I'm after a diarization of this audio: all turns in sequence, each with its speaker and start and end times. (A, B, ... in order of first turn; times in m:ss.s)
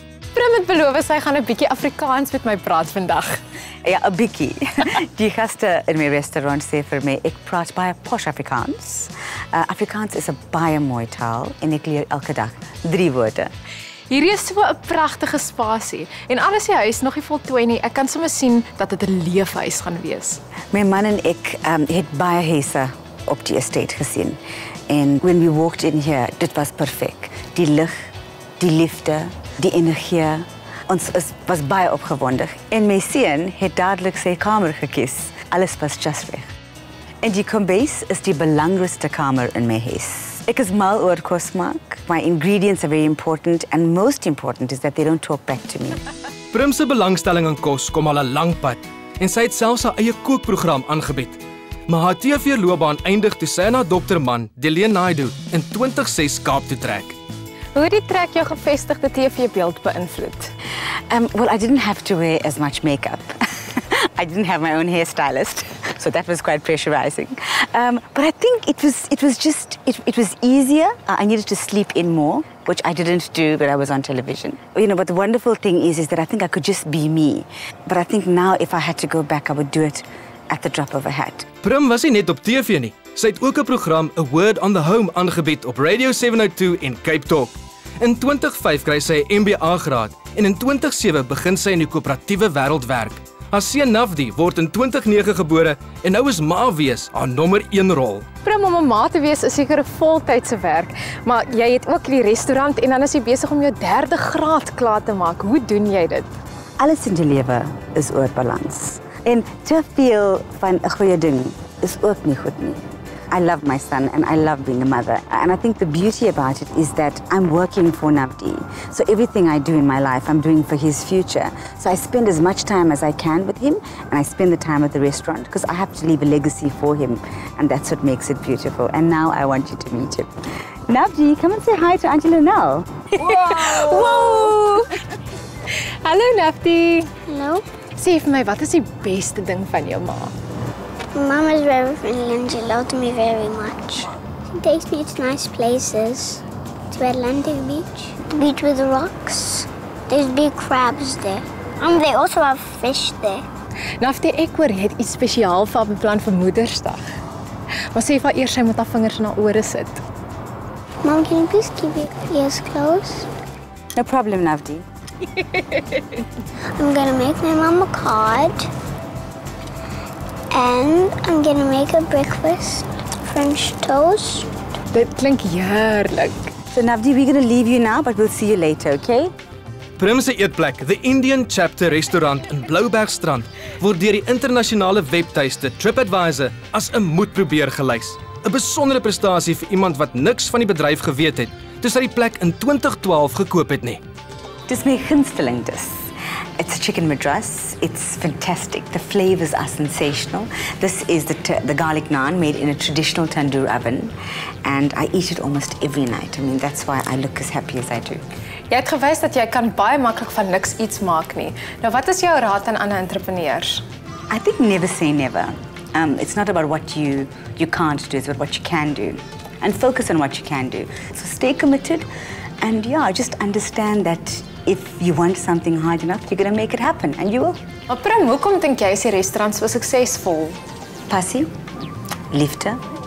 0:00.3-0:03.4 A
0:03.8-0:13.5 B
0:14.1-0:20.4 A
0:20.7-0:24.4 B
0:24.9-0:36.5 B
0:37.2-0:46.0 B
0:46.5-0:57.2 C
0:57.7-1:00.5 A
1:01.1-1:21.5 B
1:21.6-1:38.2 C
1:38.4-1:46.3 A
1:46.8-2:10.3 B
2:10.9-2:12.9 B
2:13.1-2:14.9 A
2:16.0-2:17.1 A
2:17.3-2:17.6 D
2:18.0-2:20.3 A
2:21.1-2:33.4 D
2:34.0-2:37.0 A
2:37.9-2:40.0 A
2:41.0-2:43.3 D
2:43.9-2:44.8 B
2:46.8-2:48.7 D
2:50.5-2:54.5 D
2:54.9-2:56.5 A
2:56.7-2:59.3 B
3:00.0-3:14.0 C
3:14.7-3:15.9 B
3:16.6-3:24.1 B
3:24.6-3:28.2 B
3:28.7-3:33.8 A
3:34.3-3:42.1 B
3:42.6-3:47.6 B
3:47.9-3:50.6 A
3:51.1-3:51.5 B
3:52.3-3:52.8 B